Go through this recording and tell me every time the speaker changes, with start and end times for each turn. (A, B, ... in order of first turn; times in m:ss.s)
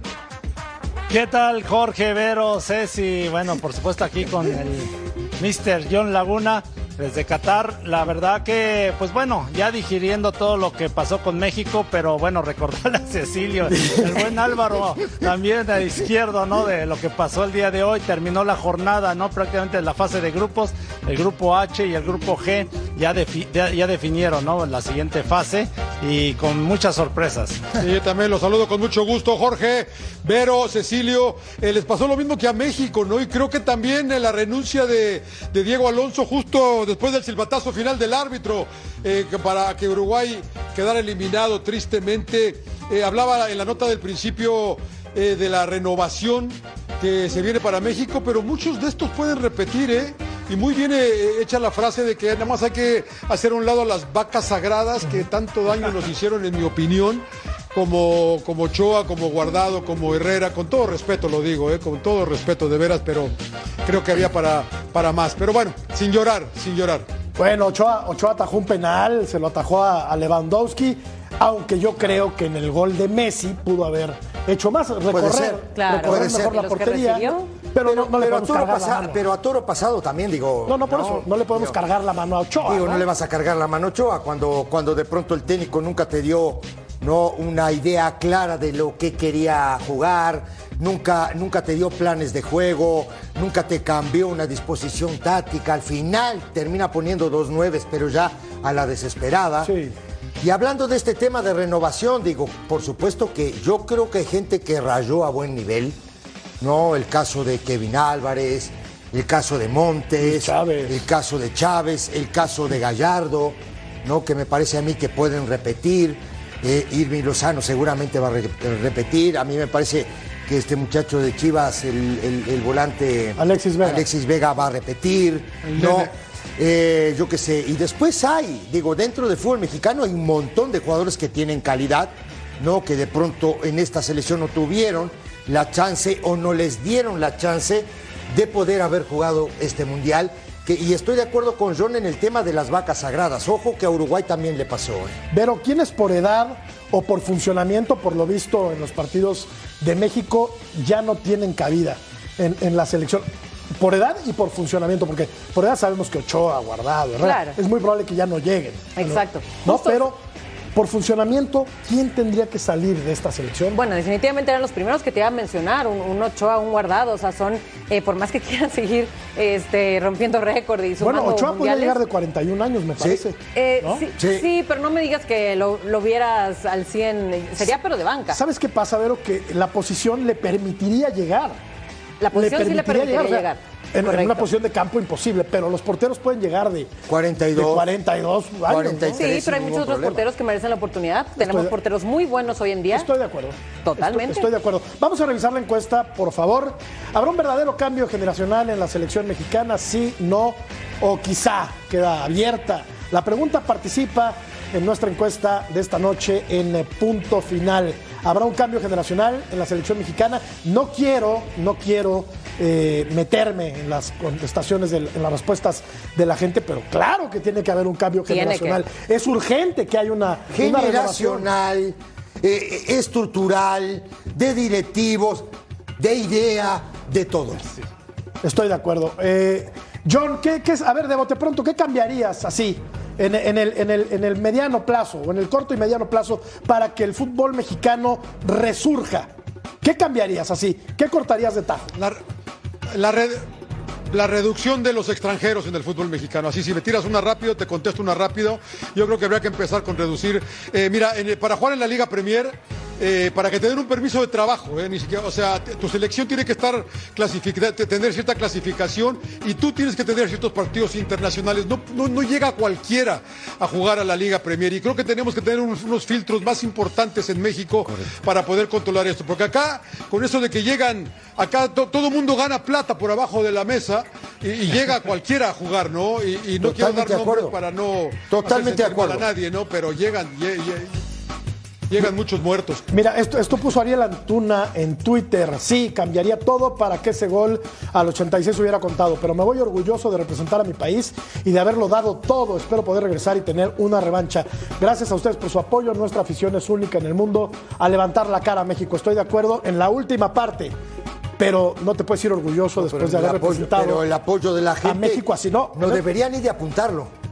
0:01.1-0:27.6 A
0:27.8-1:03.3 B
1:03.8-1:07.0 B
1:07.4-1:19.2 C
1:15.1-1:16.6 D
1:15.7-1:17.5 E
1:17.8-1:21.8 D
1:20.6-1:23.0 C
1:22.6-1:39.7 D
1:39.6-1:40.0 C
1:40.4-1:46.0 D
1:46.6-2:25.2 D
1:50.2-1:51.0 C
2:03.4-2:04.1 C
2:05.7-2:06.1 B
2:25.3-2:43.8 C
2:37.2-2:37.6 E
2:39.0-2:40.1 E
2:43.7-2:52.0 E
2:51.0-2:54.0 C
2:53.5-2:58.4 E
2:54.2-2:54.5 D
2:58.3-3:01.6 C
3:02.2-3:04.5 E
3:02.3-3:06.9 C
3:07.1-3:07.8 D
3:07.5-3:09.2 C
3:08.7-3:10.2 D
3:09.1-3:13.1 E
3:11.4-3:11.7 C
3:12.9-3:41.5 C
3:13.8-3:14.5 E
3:38.3-3:38.8 E
3:40.5-3:45.4 D
3:46.0-3:47.7 D
3:48.4-3:59.3 C
3:59.8-4:01.9 C
4:02.9-4:03.4 B
4:04.1-4:41.0 B
4:36.6-4:37.6 D
4:38.3-4:39.2 D
4:41.9-4:42.8 B
4:42.9-5:00.7 C
5:01.4-5:04.0 C
5:02.8-5:07.1 D
5:04.8-5:06.0 C